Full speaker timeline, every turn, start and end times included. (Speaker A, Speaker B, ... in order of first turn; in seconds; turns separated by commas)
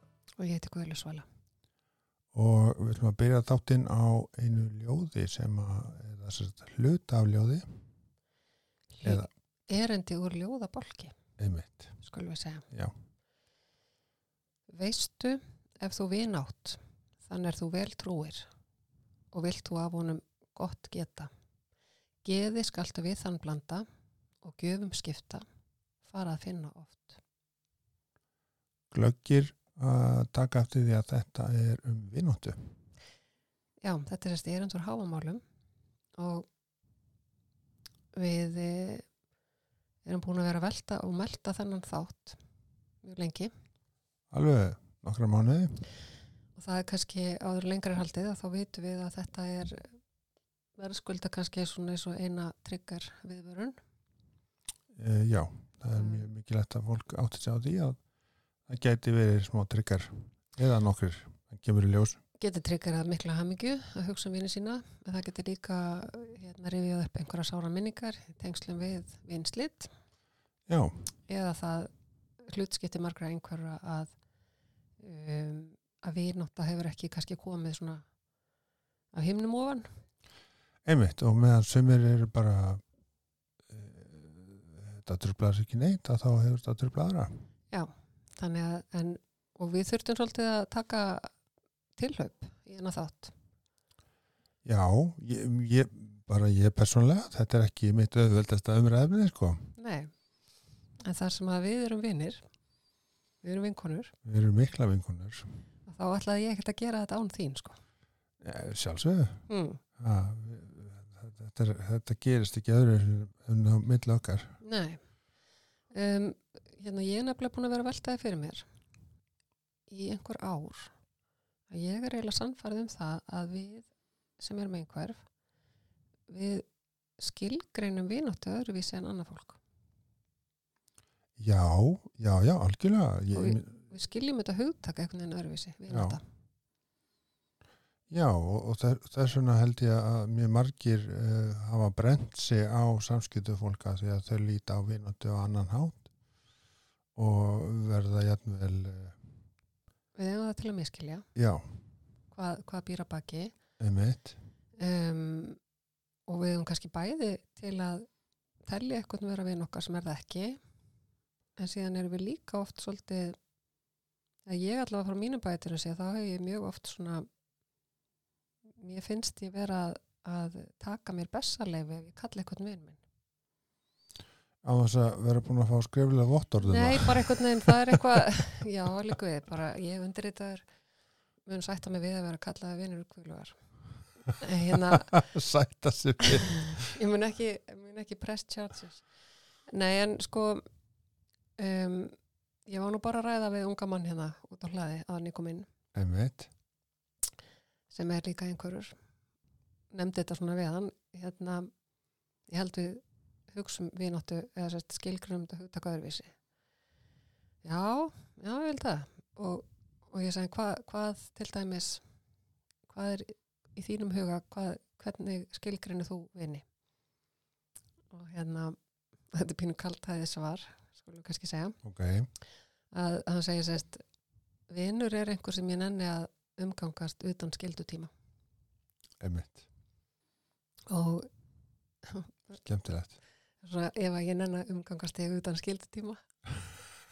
Speaker A: 0.4-1.2, Speaker B: 2.3-7.8, Speaker A: 9.0-11.1, Speaker B: 11.4-12.0, Speaker A: 12.0-12.6, Speaker A: 14.7-18.5, Speaker A: 19.3-21.3, Speaker A: 22.2-23.8, Speaker A: 24.4-25.4, Speaker A: 26.0-27.2, Speaker B: 28.9-32.7, Speaker A: 33.8-35.4, Speaker A: 36.2-36.5, Speaker A: 38.1-39.0, Speaker A: 40.0-42.4, Speaker A: 43.0-43.5, Speaker B: 44.3-45.8, Speaker A: 46.5-49.9, Speaker A: 50.8-53.8, Speaker B: 54.9-58.0, Speaker A: 56.0-56.2, Speaker B: 58.7-62.2, Speaker A: 62.4-69.9, Speaker B: 70.7-70.9, Speaker A: 71.3-71.9, Speaker A: 72.5-74.1, Speaker A: 75.0-78.0, Speaker A: 79.1-79.9, Speaker B: 80.8-82.8, Speaker B: 83.7-87.3, Speaker A: 87.7-91.3, Speaker A: 92.0-93.3, Speaker B: 94.6-99.7, Speaker A: 99.8-100.1, Speaker A: 101.0-102.4, Speaker A: 103.4-104.1, Speaker B: 104.2-105.5, Speaker A: 105.9-107.8, Speaker B: 108.4-114.6, Speaker A: 109.5-109.8, Speaker A: 114.6-115.0, Speaker A: 115.9-118.6, Speaker A: 119.9-120.9, Speaker A: 121.7-125.2, Speaker A: 126.3-126.7, Speaker A: 127.2-129.6, Speaker B: 131.4-133.8, Speaker A: 133.3-136.2, Speaker B: 135.9-136.2, Speaker B: 138.1-146.1, Speaker B: 147.2-149.3, Speaker A: 150.1-151.2, Speaker B: 151.3-151.8, Speaker A: 152.3-153.5, Speaker B: 153.8-154.4, Speaker A: 154.8-155.6, Speaker A: 156.3-158.1, Speaker A: 158.7-160.6, Speaker A: 161.6-163.4, Speaker A: 164.5-167.2, Speaker A: 168.8-173.0, Speaker B: 174.6-178.2, Speaker A: 176.6-180.6, Speaker A: 181.4-183.6, Speaker A: 184.4-185.1, Speaker B: 184.7-187.0, Speaker A: 186.8-189.0, Speaker A: 189.7-190.6, Speaker A: 191.6-192.1, Speaker A: 192.7-195.7, Speaker B: 195.9-196.5, Speaker A: 197.9-198.9, Speaker A: 199.9-201.7, Speaker A: 202.5-206.3, Speaker A: 207.6-212.0, Speaker A: 212.9-216.6, Speaker A: 218.1-218.8, Speaker A: 219.3-221.8, Speaker B: 221.8-222.3, Speaker A: 222.9-224.0, Speaker A: 224.7-228.1, Speaker B: 229.2-229.7, Speaker A: 230.9-231.3, Speaker A: 232.0-232.5, Speaker B: 232.6-233.2, Speaker A: 233.6-236.2